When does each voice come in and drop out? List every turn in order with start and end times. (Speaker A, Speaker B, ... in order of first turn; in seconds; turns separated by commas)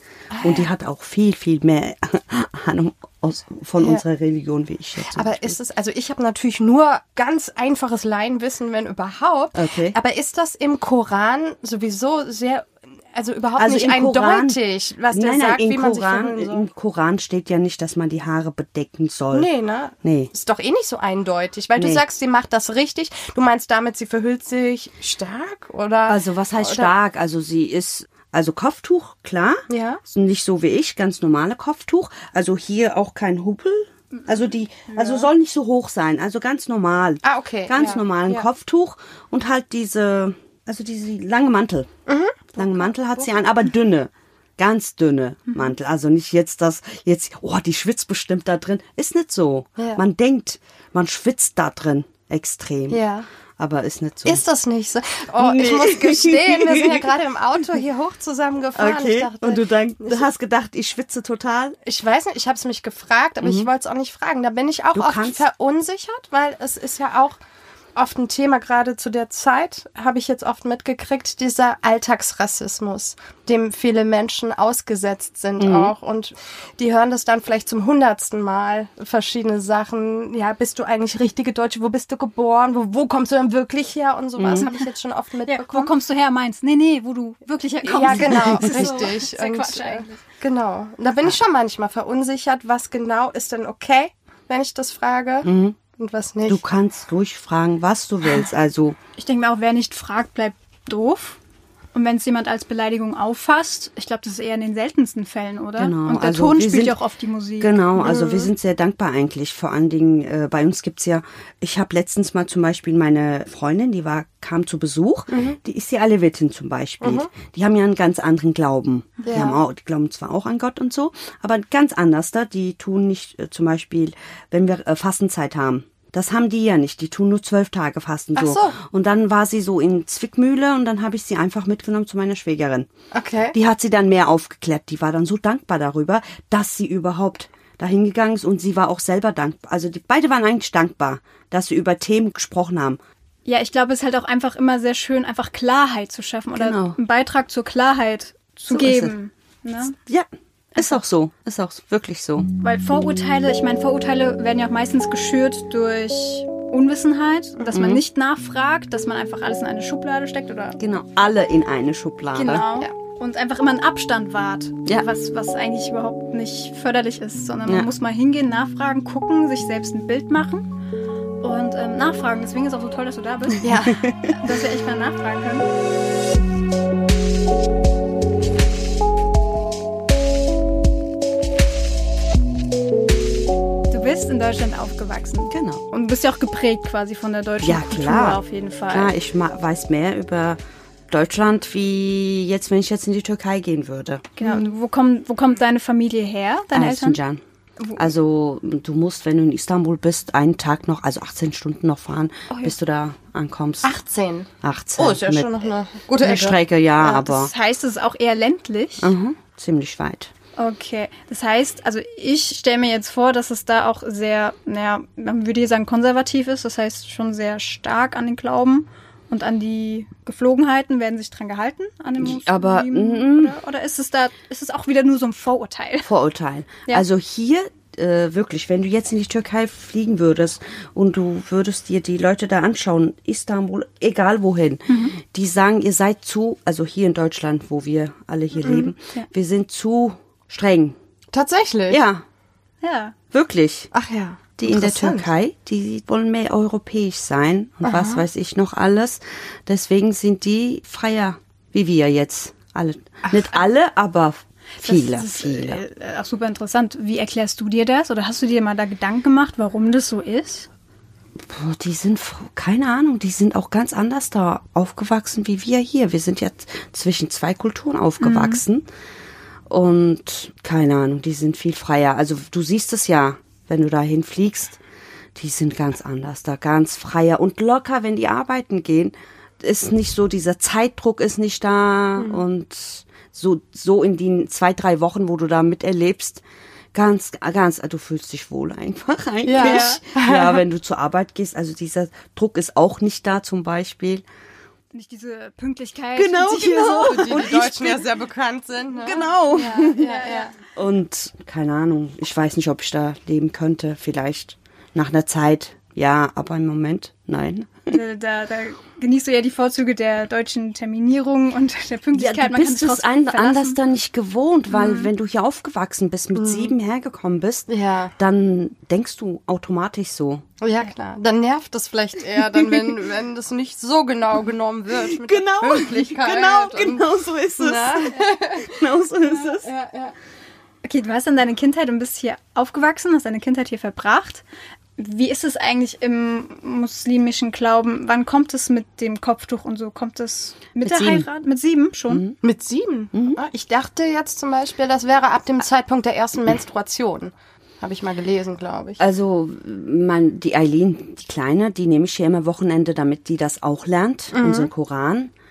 Speaker A: 0.3-0.7, Speaker B: 0.4-5.5, Speaker A: 5.0-16.6, Speaker B: 9.5-10.0, Speaker B: 13.6-14.6, Speaker B: 15.1-19.5, Speaker A: 19.3-26.9, Speaker B: 20.0-20.3, Speaker B: 21.8-22.0, Speaker B: 26.1-41.9, Speaker A: 29.7-30.0, Speaker A: 37.2-38.0, Speaker A: 42.1-43.3, Speaker B: 42.5-53.0, Speaker A: 49.8-50.0, Speaker A: 52.9-53.3, Speaker B: 53.6-54.4, Speaker A: 54.2-60.2, Speaker B: 55.4-57.0, Speaker B: 58.7-61.8, Speaker A: 61.8-67.4, Speaker B: 63.4-63.7, Speaker B: 64.9-65.4, Speaker A: 68.0-85.9, Speaker B: 75.6-75.9, Speaker B: 84.4-84.7, Speaker C: 85.5-90.2, Speaker A: 87.8-96.6, Speaker B: 88.3-88.6, Speaker B: 95.4-95.8, Speaker B: 96.5-99.0, Speaker C: 99.2-101.4, Speaker C: 101.9-107.9, Speaker B: 105.8-107.0, Speaker B: 107.6-132.9, Speaker A: 108.0-108.5, Speaker A: 115.3-115.6, Speaker A: 117.0-117.3, Speaker A: 119.2-119.6, Speaker A: 128.3-128.8, Speaker A: 133.1-133.6, Speaker B: 133.5-143.0, Speaker C: 143.4-149.9, Speaker B: 146.5-147.0, Speaker B: 148.7-149.1, Speaker B: 150.1-152.5, Speaker C: 152.6-160.8, Speaker B: 157.7-158.0, Speaker B: 160.8-162.6, Speaker C: 162.3-170.7, Speaker C: 171.4-175.7, Speaker A: 173.6-174.0, Speaker B: 173.9-174.3, Speaker C: 183.9-189.1, Speaker B: 185.5-185.8, Speaker B: 187.6-194.2, Speaker C: 194.4-197.2, Speaker B: 196.7-197.4, Speaker B: 197.9-203.9, Speaker A: 203.8-206.6, Speaker B: 204.6-205.5, Speaker B: 206.2-207.5, Speaker C: 207.0-209.1, Speaker B: 209.0-210.3, Speaker C: 210.6-226.1, Speaker B: 222.2-223.5, Speaker B: 226.0-240.9, Speaker C: 234.9-235.1, Speaker A: 238.6-238.9, Speaker A: 241.3-242.0, Speaker B: 241.9-242.2, Speaker C: 242.8-243.1, Speaker B: 243.3-243.9, Speaker A: 243.9-245.3, Speaker B: 244.6-255.8, Speaker A: 247.8-248.2, Speaker C: 254.8-260.7, Speaker B: 261.4-268.9, Speaker C: 268.2-268.6, Speaker B: 269.7-274.8, Speaker B: 275.4-286.4, Speaker B: 286.9-294.2, Speaker A: 289.4-290.6, Speaker C: 294.9-297.5, Speaker B: 296.1-298.0, Speaker A: 297.0-300.5, Speaker B: 299.0-300.1, Speaker C: 299.5-300.5, Speaker B: 300.7-308.0, Speaker C: 307.9-313.8, Speaker B: 312.1-320.4, Speaker C: 314.7-315.1, Speaker A: 316.3-316.7, Speaker A: 317.7-318.1, Speaker A: 320.6-327.1, Speaker B: 325.1-329.7, Speaker A: 327.6-328.8, Speaker A: 329.4-330.1, Speaker C: 330.8-334.4, Speaker C: 335.0-342.2, Speaker B: 340.8-341.3, Speaker B: 342.1-342.4, Speaker A: 342.4-349.0, Speaker B: 343.1-343.4, Speaker B: 349.0-355.3, Speaker A: 354.3-354.7